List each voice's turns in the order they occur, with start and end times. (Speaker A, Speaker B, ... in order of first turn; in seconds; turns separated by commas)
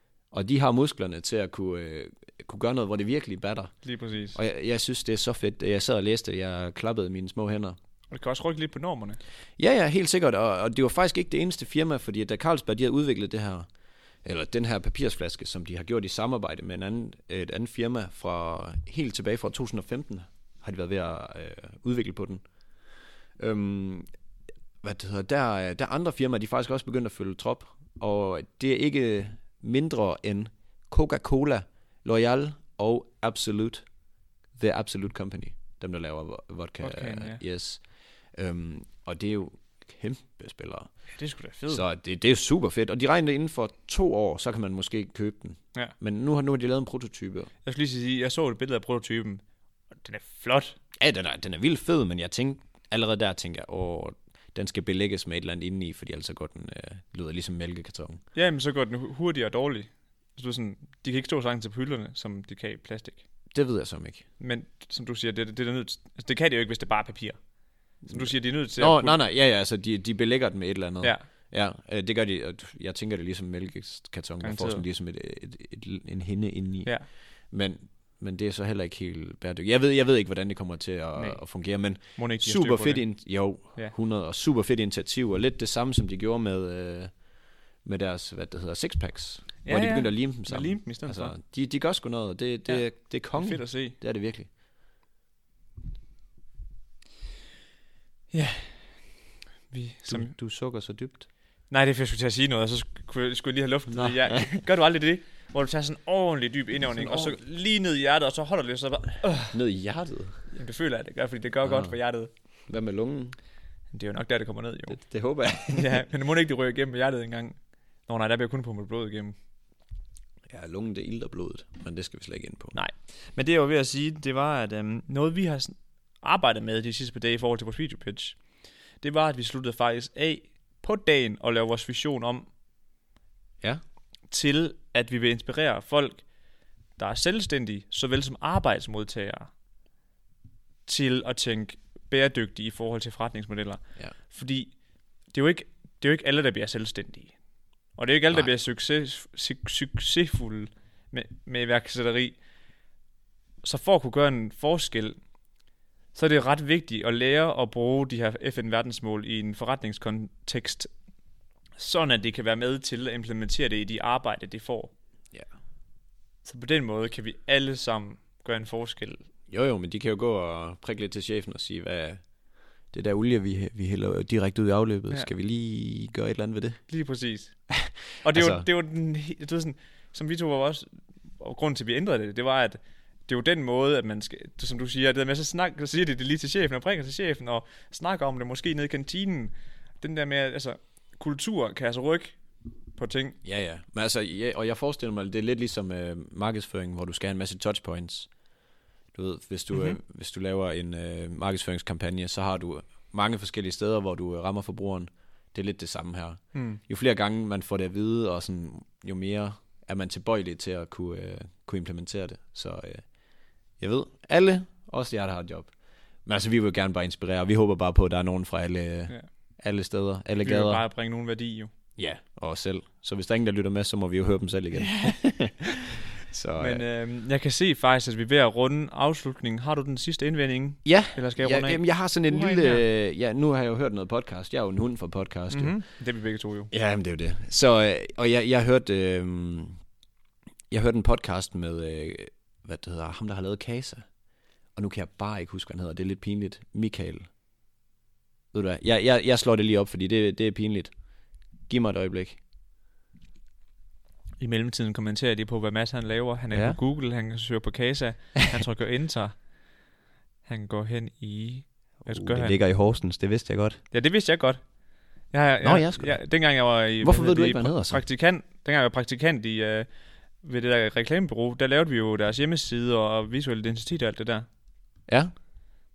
Speaker A: 0.3-3.7, Speaker B: 3.8-4.4, Speaker A: 4.3-7.8, Speaker B: 8.1-9.2, Speaker A: 9.6-13.7, Speaker A: 14.2-22.4, Speaker A: 23.4-24.1, Speaker A: 24.8-33.8, Speaker A: 34.6-37.8, Speaker B: 36.8-37.4, Speaker A: 38.3-40.9, Speaker B: 41.2-41.8, Speaker A: 41.7-47.5, Speaker B: 47.6-49.4, Speaker B: 50.0-50.8, Speaker A: 51.0-58.2, Speaker B: 58.3-63.2, Speaker A: 63.5-64.2, Speaker B: 64.4-67.4, Speaker B: 68.0-69.2, Speaker A: 68.0-76.9, Speaker B: 74.4-74.8, Speaker A: 77.5-87.1, Speaker B: 82.2-83.0, Speaker A: 87.8-94.5, Speaker B: 89.6-91.3, Speaker B: 93.3-94.0, Speaker B: 98.3-99.0, Speaker B: 99.7-100.3, Speaker A: 100.1-101.3, Speaker B: 101.7-109.5, Speaker A: 103.9-104.5, Speaker A: 106.9-107.4, Speaker A: 109.5-110.4, Speaker B: 110.5-112.3, Speaker A: 111.6-111.9, Speaker A: 112.7-113.3, Speaker B: 113.9-115.0, Speaker A: 114.9-116.0, Speaker B: 115.7-119.3, Speaker A: 120.5-122.8, Speaker B: 122.7-128.4, Speaker B: 129.0-132.5, Speaker B: 134.3-136.2, Speaker B: 137.0-139.5, Speaker B: 140.8-144.7, Speaker B: 145.3-147.3, Speaker B: 147.9-152.3, Speaker B: 153.6-155.2, Speaker B: 156.1-160.9, Speaker B: 161.8-164.9, Speaker B: 166.4-169.2, Speaker A: 169.5-172.2, Speaker A: 172.9-176.8, Speaker B: 176.9-177.5, Speaker A: 177.7-178.7, Speaker B: 178.2-180.9, Speaker B: 181.4-192.3, Speaker B: 192.9-193.4, Speaker A: 193.4-198.3, Speaker A: 199.1-213.0, Speaker B: 199.7-200.0, Speaker B: 206.5-206.8, Speaker A: 213.8-215.7, Speaker A: 216.2-220.8, Speaker B: 220.4-221.7, Speaker A: 222.0-226.8, Speaker B: 224.8-225.2, Speaker B: 226.6-232.8, Speaker A: 230.8-235.7, Speaker B: 235.5-236.7, Speaker A: 236.7-239.8, Speaker A: 240.7-244.1, Speaker A: 244.8-247.3, Speaker A: 248.5-250.9, Speaker A: 251.7-252.4, Speaker B: 254.4-259.4, Speaker A: 256.5-256.8, Speaker B: 260.4-262.6, Speaker A: 262.0-263.8, Speaker B: 263.9-264.6, Speaker B: 265.3-269.9, Speaker A: 265.6-266.2, Speaker A: 267.0-268.0, Speaker B: 270.4-274.5